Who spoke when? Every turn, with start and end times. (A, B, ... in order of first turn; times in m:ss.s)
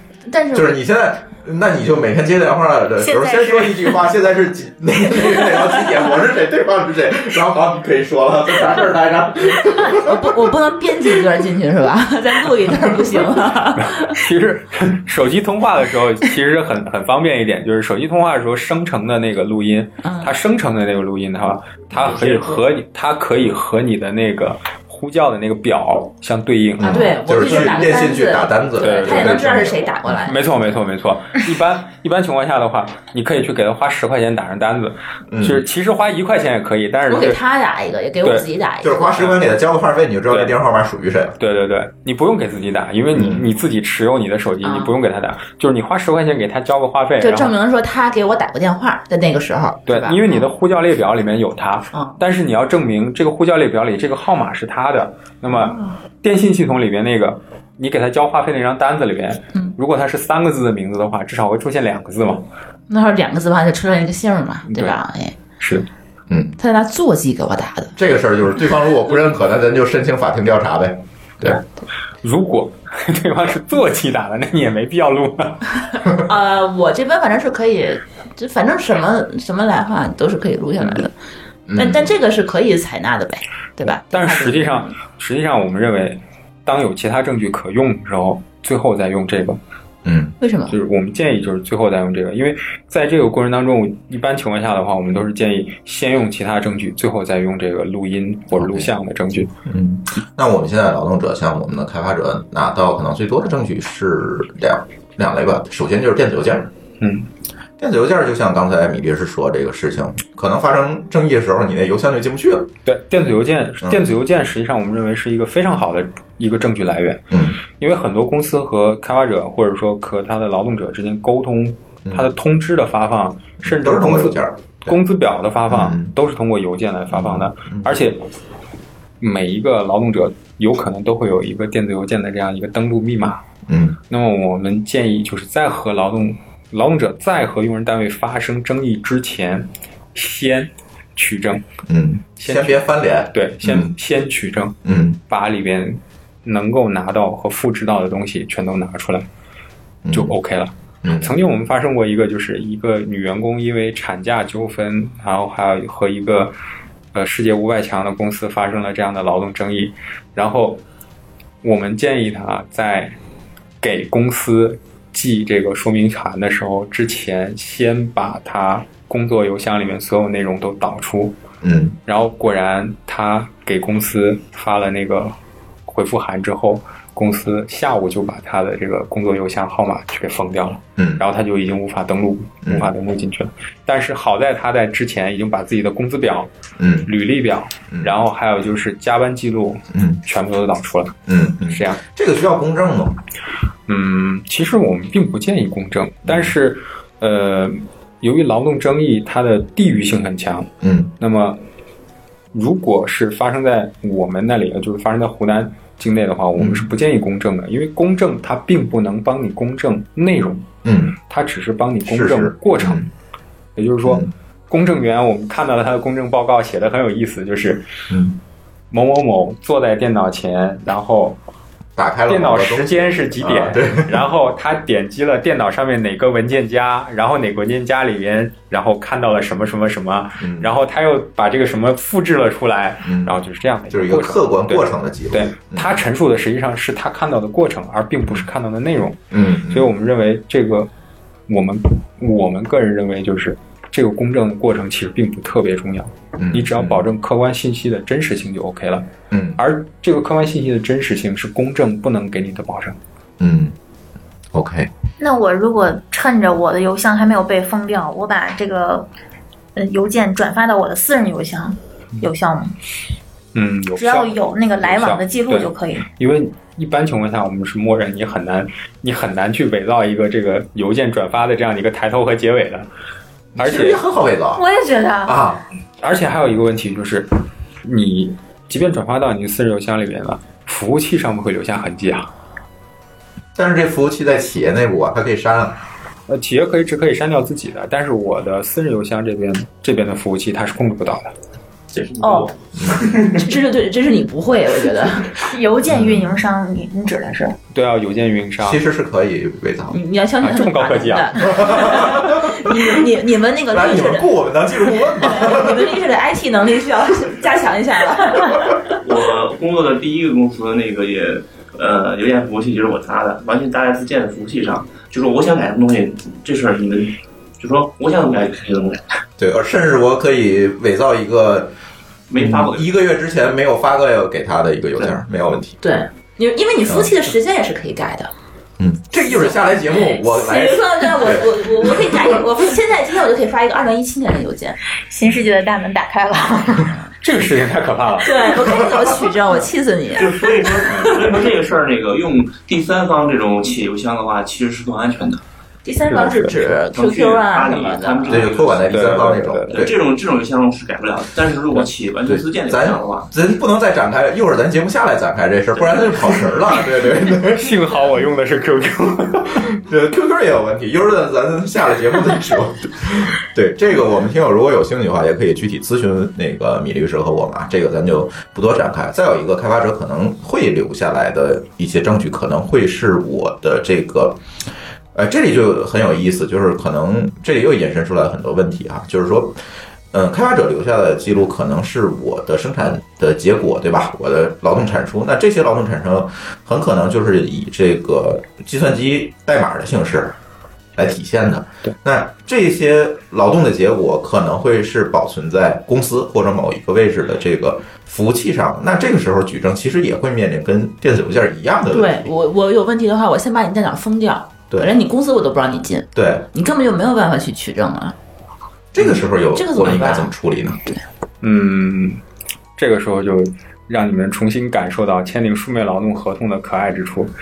0:00.2-0:00.7 A
0:00.5-0:10.5 B
0:03.0-0:04.0 C
0:09.9-0:14.2 A
0:13.8-0:27.1 D
0:20.0-0:20.3 A
0:22.2-0:22.6 E
0:26.8-0:30.2 B
0:26.8-0:30.4 A
0:28.8-0:37.4 D
0:35.3-0:35.6 B
0:37.1-0:39.4 A
0:38.2-0:38.5 D
0:38.8-0:41.4 B
0:40.3-0:40.6 D
0:41.4-0:47.5 D
0:43.1-0:43.5 B
0:44.6-0:44.9 A
0:47.2-0:50.5 A
0:49.9-1:02.5 D
0:55.5-0:56.0 A
1:02.9-1:05.4 A
1:04.6-1:05.0 D
1:05.6-1:05.9 D
1:06.3-1:06.6 B
1:06.6-1:07.9 A
1:08.0-1:11.6 B
1:12.2-1:15.6 D
1:16.2-1:21.1 A
1:20.8-1:21.0 D
1:21.7-1:22.1 B
1:21.7-1:24.9 A
1:24.1-1:29.6 D
1:30.0-1:30.4 B
1:30.4-1:30.8 A
1:30.7-1:39.5 D
1:38.5-1:38.9 B
1:39.6-1:46.7 B
1:47.0-1:47.3 D
1:47.8-1:52.7 B
1:52.8-2:08.2 D
1:57.3-1:57.6 B
2:02.0-2:02.3 B
2:03.6-2:05.0 B
2:05.7-2:06.1 B
2:07.1-2:08.0 B
2:09.2-2:13.4 D
2:13.7-2:14.0 B
2:14.1-2:21.6 D
2:21.9-2:23.9 B
2:22.4-2:24.8 D
2:24.8-2:25.2 B
2:25.3-2:29.3 D
2:30.0-2:30.4 B
2:30.1-2:36.5 D
2:31.0-2:31.3 B
2:37.1-2:40.8 D
2:41.6-2:43.2 D
2:43.8-2:51.4 D
2:51.6-2:52.0 B
2:52.1-2:55.4 D
2:55.9-3:06.5 D
3:01.0-3:01.2 B
3:02.6-3:02.9 B
3:06.8-3:07.1 B
3:07.0-3:12.0 D
3:09.9-3:10.2 B
3:11.3-3:13.2 B
3:13.9-3:21.6 D
3:16.2-3:16.5 B
3:20.8-3:21.1 B
3:22.5-3:30.7 D
3:26.6-3:26.9 B
3:30.8-3:31.2 B
3:31.3-3:33.1 D
3:32.0-3:33.1 B
3:33.8-3:37.8 D
3:34.0-3:34.3 B
3:38.1-3:38.4 B
3:38.9-3:41.4 D
3:42.0-3:44.2 B
3:42.3-4:00.9 D
3:50.4-3:50.7 B
3:53.0-3:53.4 B
3:53.9-3:56.0 B
3:59.3-3:59.9 B
4:01.5-4:13.0 D
4:06.4-4:07.0 B
4:09.3-4:09.6 B
4:13.4-4:13.7 B
4:14.5-4:14.9 B
4:15.2-4:19.1 C
4:19.8-4:22.7 C
4:23.5-4:32.9 D
4:24.0-4:26.0 C
4:33.5-4:34.6 B
4:33.6-4:34.0 D
4:34.5-4:35.4 C
4:35.2-4:35.6 B
4:36.0-4:42.3 D
4:43.6-4:45.8 B
4:46.3-4:51.3 D
4:51.9-4:53.4 E
4:52.2-4:52.5 C
4:52.8-4:53.0 B
4:53.4-4:55.4 A
4:55.5-4:57.6 C
4:55.9-4:56.4 B
4:57.7-4:58.8 D
4:58.6-5:00.0 B
4:59.9-5:04.3 A
5:00.4-5:02.1 D
5:01.5-5:02.9 B
5:03.7-5:06.0 B
5:04.9-5:09.0 A
5:09.0-5:19.2 E
5:19.4-5:21.7 B
5:22.3-5:22.9 E
5:22.4-5:25.8 B
5:25.8-5:28.3 A
5:26.8-5:27.1 B
5:28.8-5:32.4 B
5:29.2-5:34.8 A
5:35.1-5:37.0 C
5:37.2-5:38.4 D
5:38.2-5:41.4 A
5:40.1-5:45.4 E
5:40.9-5:41.1 D
5:45.8-5:48.5 A
5:46.1-5:46.7 D
5:46.9-5:49.2 E
5:48.3-5:50.0 B
5:48.9-5:49.8 D
5:49.7-5:53.3 E
5:52.2-5:57.7 B
5:57.5-5:59.7 D
5:59.7-6:14.4 B
6:15.1-6:19.6 B
6:20.1-6:30.4 B
6:31.0-6:42.2 B
6:41.9-6:48.1 A
6:46.1-6:46.5 B
6:48.9-6:50.8 B
6:49.0-6:50.3 A
6:51.4-6:52.2 D
6:52.8-6:57.3 D